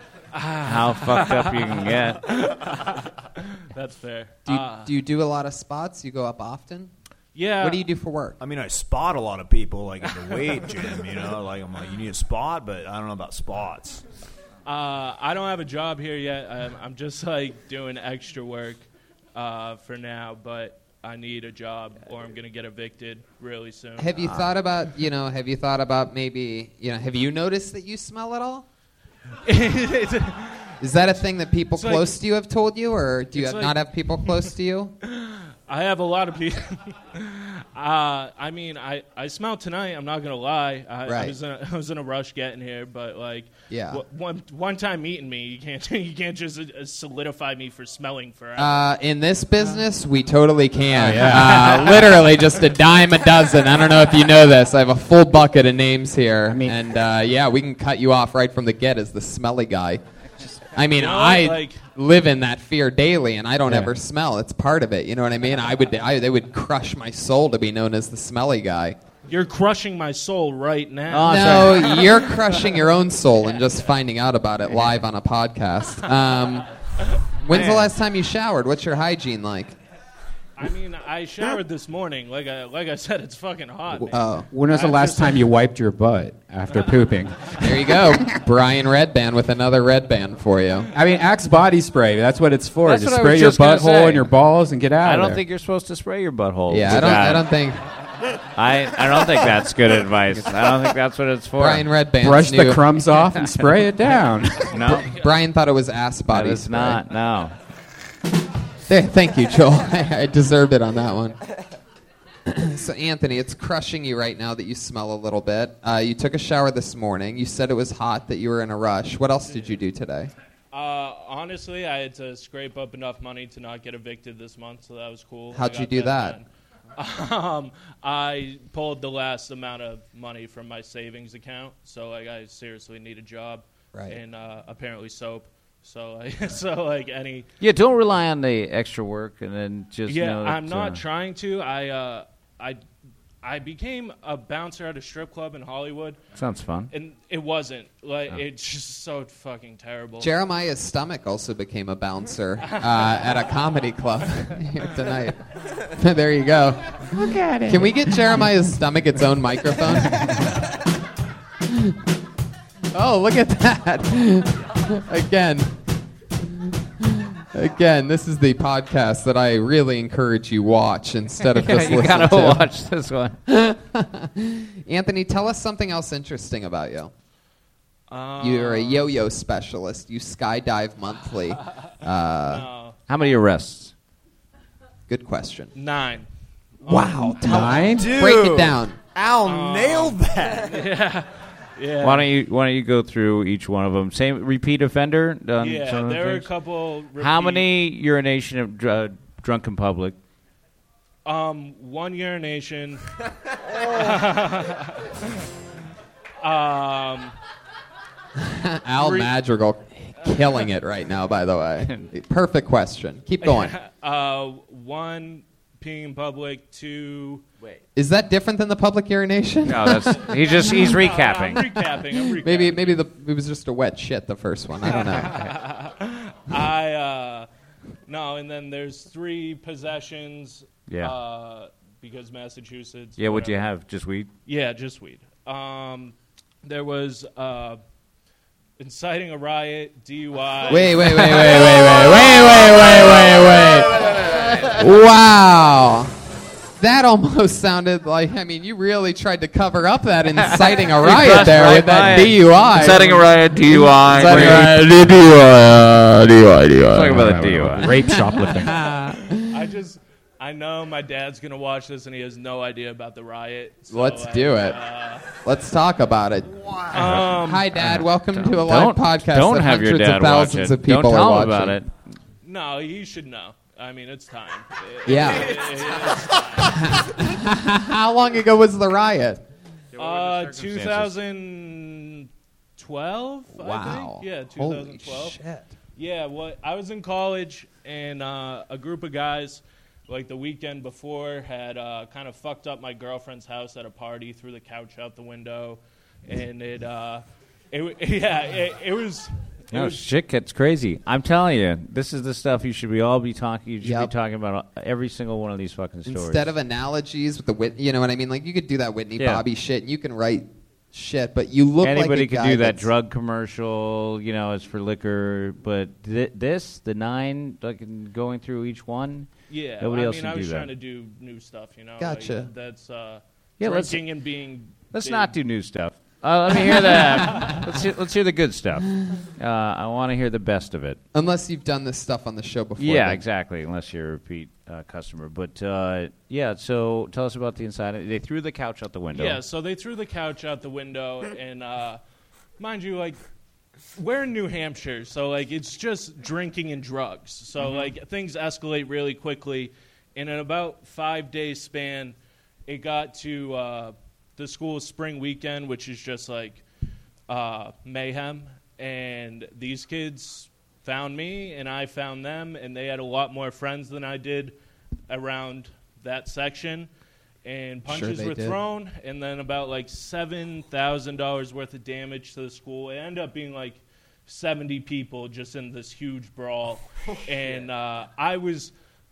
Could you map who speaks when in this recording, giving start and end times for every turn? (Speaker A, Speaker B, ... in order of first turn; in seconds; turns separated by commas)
Speaker A: 0.3-4.9, Speaker B: 0.6-2.2, Speaker C: 4.5-6.9, Speaker A: 7.3-7.8, Speaker C: 7.6-8.4, Speaker D: 8.4-14.0, Speaker A: 10.1-10.4, Speaker A: 14.6-24.3, Speaker C: 24.0-28.6, Speaker A: 29.4-30.8, Speaker C: 30.8-34.9, Speaker A: 31.8-32.1, Speaker A: 33.3-34.3, Speaker A: 35.0-48.8, Speaker C: 41.0-41.3, Speaker C: 43.7-44.0, Speaker C: 48.6-60.0, Speaker E: 50.9-51.9, Speaker E: 56.5-56.7, Speaker C: 60.7-69.0, Speaker A: 61.0-61.8, Speaker E: 63.7-63.9, Speaker A: 69.3-72.6, Speaker B: 71.1-71.9, Speaker C: 71.2-76.7, Speaker C: 77.4-79.7, Speaker D: 77.5-77.9, Speaker A: 80.6-84.1, Speaker E: 83.9-88.4, Speaker C: 84.1-84.5, Speaker A: 84.7-85.4, Speaker C: 87.6-90.9, Speaker E: 90.9-95.4, Speaker B: 92.8-94.3, Speaker B: 95.0-97.5, Speaker C: 96.7-97.8, Speaker B: 98.5-101.9, Speaker C: 101.6-102.8, Speaker E: 102.2-105.0, Speaker B: 104.7-105.1, Speaker C: 105.0-107.0, Speaker B: 106.3-107.5, Speaker C: 108.9-111.4, Speaker C: 112.5-120.3, Speaker A: 119.5-119.7, Speaker A: 120.7-137.5, Speaker C: 125.5-126.4, Speaker C: 133.9-134.2, Speaker B: 137.6-141.0, Speaker A: 140.1-142.8, Speaker A: 143.4-146.2, Speaker B: 146.4-146.9, Speaker A: 146.9-150.3, Speaker C: 150.2-155.4, Speaker A: 152.6-153.3, Speaker C: 155.9-157.1, Speaker E: 157.1-157.9, Speaker C: 157.7-160.4, Speaker C: 161.7-161.9, Speaker C: 162.9-165.7, Speaker C: 167.0-172.7, Speaker B: 171.5-173.4, Speaker C: 173.5-177.1, Speaker A: 178.1-179.1, Speaker C: 178.4-182.7, Speaker A: 182.5-182.9, Speaker B: 183.1-183.9, Speaker C: 185.1-185.7, Speaker A: 185.7-186.3, Speaker C: 186.8-189.0, Speaker A: 186.8-187.3, Speaker E: 187.3-188.1, Speaker D: 187.8-190.9, Speaker A: 189.4-192.2, Speaker B: 192.0-196.5, Speaker A: 195.6-197.7, Speaker B: 197.2-200.2, Speaker A: 201.2-203.0, Speaker A: 203.8-205.2, Speaker A: 206.4-207.3, Speaker C: 208.4-213.7, Speaker A: 209.0-209.3, Speaker A: 213.4-217.4, Speaker C: 217.9-220.3, Speaker B: 219.6-221.7, Speaker A: 220.2-222.9, Speaker C: 222.2-225.4, Speaker A: 224.8-227.5, Speaker A: 228.1-233.6, Speaker B: 230.9-231.2, Speaker B: 233.2-234.3, Speaker A: 234.4-237.8, Speaker A: 238.8-243.2, Speaker C: 240.7-246.1, Speaker C: 246.8-255.4, Speaker B: 250.4-255.1, Speaker B: 256.8-257.9, Speaker E: 256.9-258.8, Speaker C: 258.0-259.6, Speaker A: 259.5-265.2, Speaker C: 263.9-264.8, Speaker C: 265.4-266.5, Speaker A: 266.9-267.7, Speaker B: 267.0-271.9, Speaker C: 267.3-271.8, Speaker A: 272.4-276.8, Speaker C: 275.1-275.6, Speaker C: 276.7-279.4, Speaker A: 279.9-285.4, Speaker B: 280.0-281.1, Speaker C: 283.5-285.7, Speaker A: 286.0-300.1, Speaker B: 299.7-306.4, Speaker C: 303.8-304.1, Speaker C: 306.1-312.9, Speaker B: 309.2-309.4, Speaker B: 311.8-320.7, Speaker A: 319.5-325.3, Speaker C: 322.0-322.5, Speaker B: 323.6-324.0, Speaker B: 324.9-331.0, Speaker A: 327.2-327.6, Speaker C: 331.1-333.2, Speaker B: 332.8-339.4, Speaker A: 339.1-342.0, Speaker A: 342.6-343.2, Speaker A: 343.9-352.1, Speaker A: 352.7-356.6, Speaker A: 357.3-364.5, Speaker A: 365.1-366.9, Speaker A: 367.4-378.7, Speaker C: 367.9-368.6